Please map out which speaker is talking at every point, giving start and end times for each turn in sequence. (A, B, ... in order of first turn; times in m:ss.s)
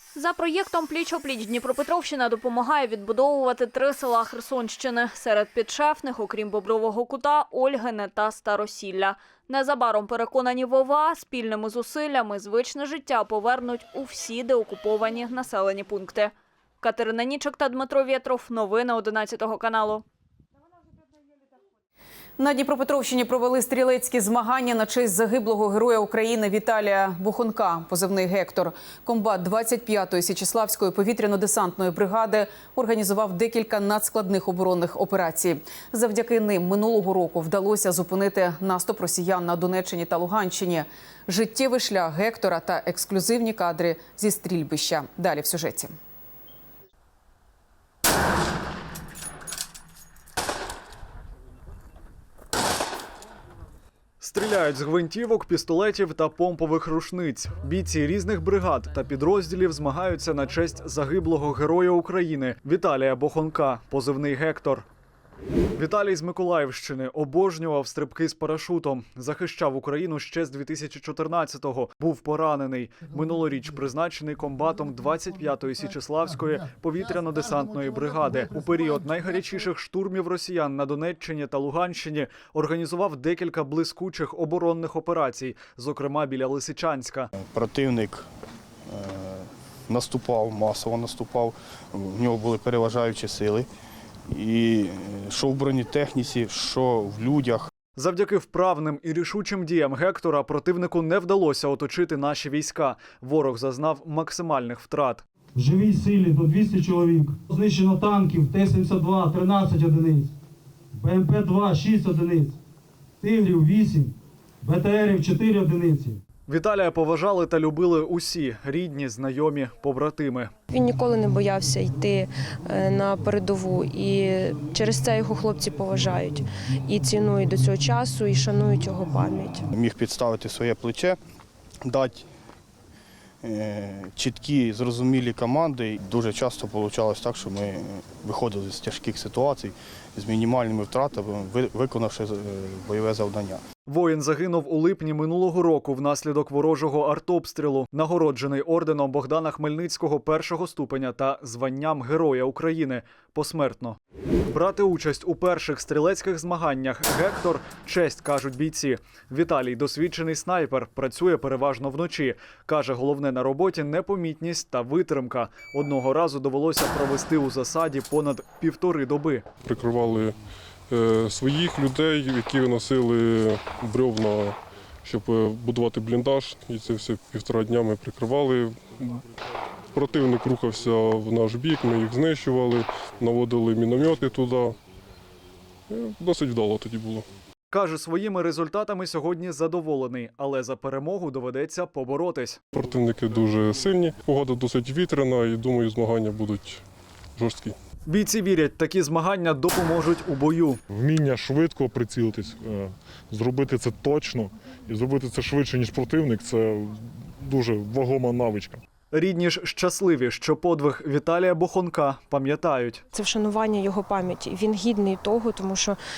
0:00.2-0:20.0 A
0:22.4-0:45.9 B
0:54.2-1:04.9 C
1:05.8-1:27.3 C
1:27.4-1:28.2 D
1:28.9-1:33.7 D
1:34.3-1:37.7 D
1:38.0-1:45.2 C
1:45.6-1:50.3 E
1:51.0-1:52.6 E
1:53.2-1:56.2 E
1:56.5-2:00.5 C
2:00.7-2:09.6 F
2:09.7-2:11.2 D
2:11.8-2:12.3 D
2:13.4-2:23.6 D
2:23.9-2:34.0 C
2:34.5-2:49.5 C
2:49.6-2:50.4 G
2:50.9-2:59.2 G
3:00.0-3:04.8 G
3:05.9-3:07.3 G
3:07.7-3:12.6 C
3:12.7-3:16.8 G
3:17.4-3:17.8 G
3:18.1-3:20.8 C
3:21.0-3:28.8 H
3:29.1-3:33.0 C
3:33.2-3:36.0 F